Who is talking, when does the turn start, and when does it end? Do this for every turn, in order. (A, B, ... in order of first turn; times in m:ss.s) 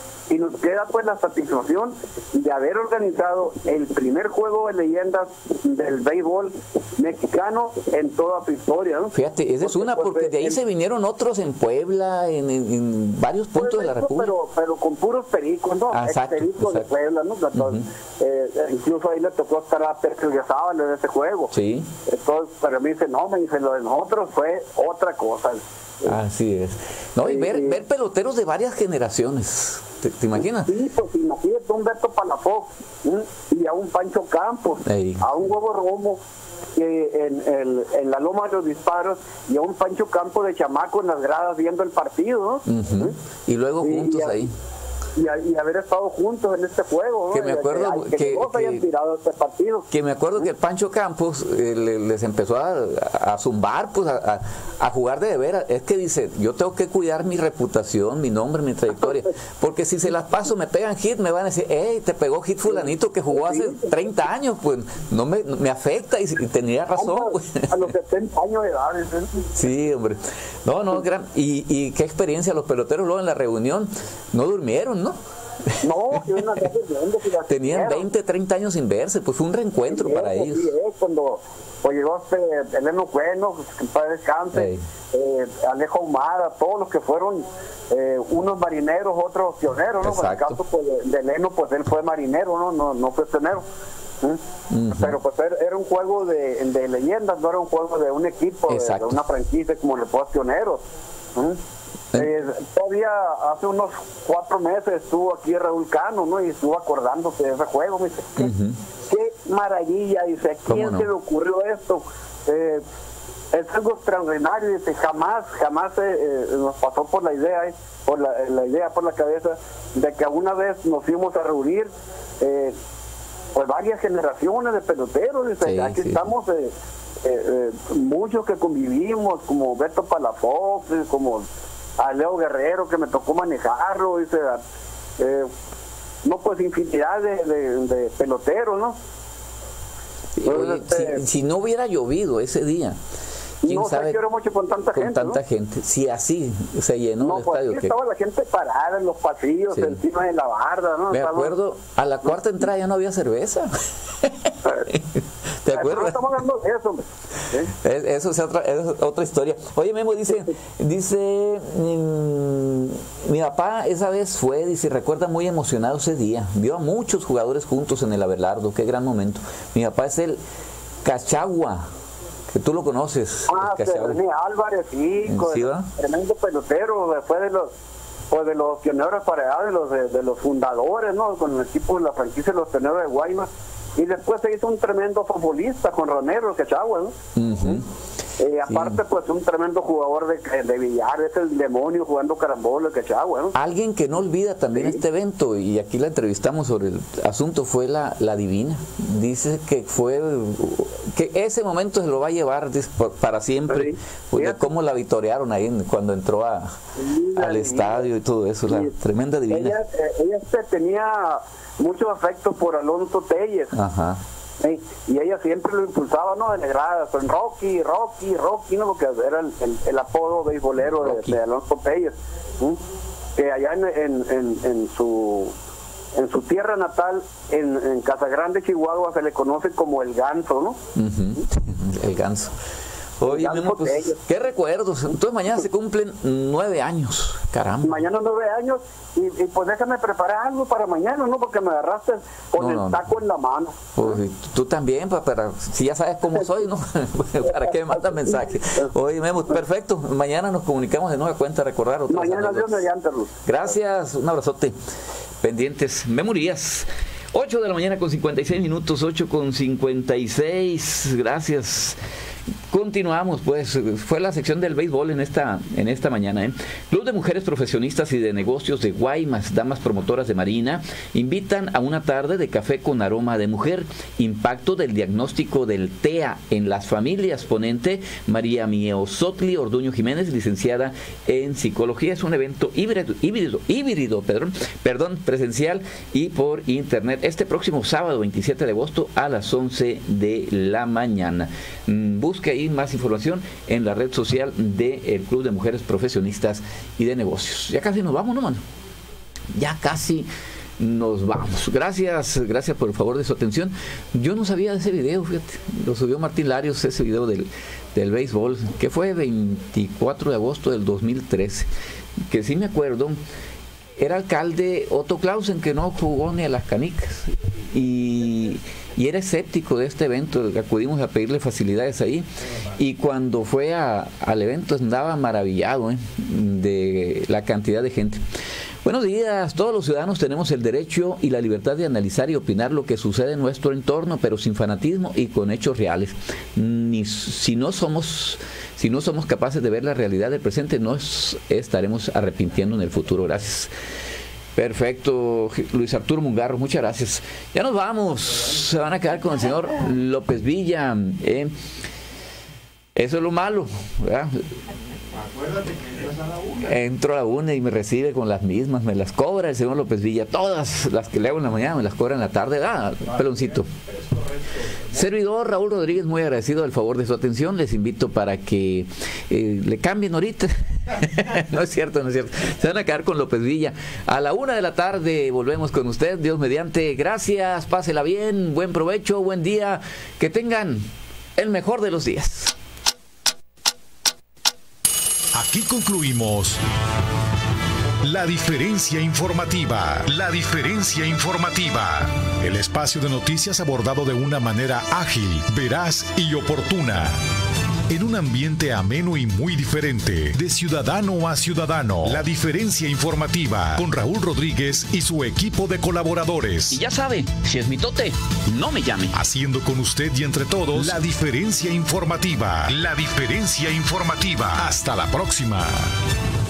0:00.3-0:09.1 A
0:09.1-0:14.3 B
0:09.6-0:10.6 A
0:13.6-0:21.5 A
0:15.9-0:16.9 B
0:17.5-0:17.8 B
0:21.5-0:21.9 B
0:22.1-0:25.6 A
0:26.0-0:30.7 B
0:27.2-0:27.8 A
0:30.6-0:36.2 A
0:34.8-0:35.4 B
0:36.8-0:43.1 A
0:42.6-0:44.5 B
0:43.8-0:44.4 A
0:45.2-0:49.8 A
0:47.3-0:48.8 B
0:49.9-1:07.7 B
0:58.9-0:59.2 A
1:02.7-1:04.0 A
1:07.0-1:09.4 A
1:09.5-1:15.2 B
1:15.8-1:18.0 A
1:16.1-1:16.6 B
1:17.5-1:20.7 B
1:19.9-1:33.6 A
1:24.5-1:24.8 B
1:30.0-1:30.6 B
1:34.7-1:35.2 B
1:35.0-1:40.8 A
1:38.7-1:39.2 B
1:42.2-1:48.5 A
1:48.4-1:48.8 B
1:49.1-1:52.8 A
1:50.7-1:51.1 B
1:53.5-2:01.9 A
2:02.4-2:02.7 A
2:03.5-2:06.7 A
2:05.6-2:06.2 B
2:07.2-2:11.4 A
2:12.0-2:14.6 A
2:15.2-2:15.5 A
2:16.2-2:19.0 A
2:20.4-2:23.0 B
2:20.5-2:21.2 A
2:23.6-2:25.4 A
2:23.6-2:24.2 B
2:24.9-2:27.9 B
2:27.2-2:31.5 A
2:29.7-2:30.0 B
2:31.1-2:33.7 B
2:34.9-2:36.4 B
2:35.7-2:37.7 A
2:37.8-2:50.4 B
2:51.0-2:51.8 B
2:52.5-2:54.2 B
2:53.5-2:57.7 A
2:55.2-2:55.9 B
2:58.3-3:07.1 A
3:07.4-3:07.8 B
3:08.4-3:13.5 A
3:08.7-3:09.0 B
3:13.5-3:26.7 B
3:23.7-3:24.7 A
3:27.0-3:28.0 A
3:27.4-3:29.8 B
3:28.7-3:28.9 A
3:29.5-3:33.7 A
3:33.7-3:34.2 B
3:34.6-3:42.8 A
3:40.8-3:41.4 B
3:43.4-3:45.5 A
3:46.2-3:50.8 A
3:51.0-3:52.5 B
3:53.2-3:58.0 B
3:53.2-3:54.2 A
3:57.8-4:04.1 A
4:02.6-4:03.0 B
4:03.9-4:12.7 B
4:07.4-4:08.8 A
4:12.1-4:13.7 A
4:13.4-4:14.7 B
4:15.4-4:22.0 B
4:22.7-4:58.6 B
4:59.5-5:00.3 B
5:00.8-5:11.7 B
5:12.3-5:13.2 B
5:14.0-5:22.2 B
5:22.8-5:28.2 B
5:28.8-5:43.7 B
5:44.6-5:51.5 B
5:53.0-5:54.3 B
5:56.6-6:03.7 B
6:04.9-6:22.5 B
6:25.3-6:26.6 C
6:28.0-6:37.1 C
6:37.9-6:46.8 C
6:46.7-6:49.1 B
6:49.1-6:55.7 C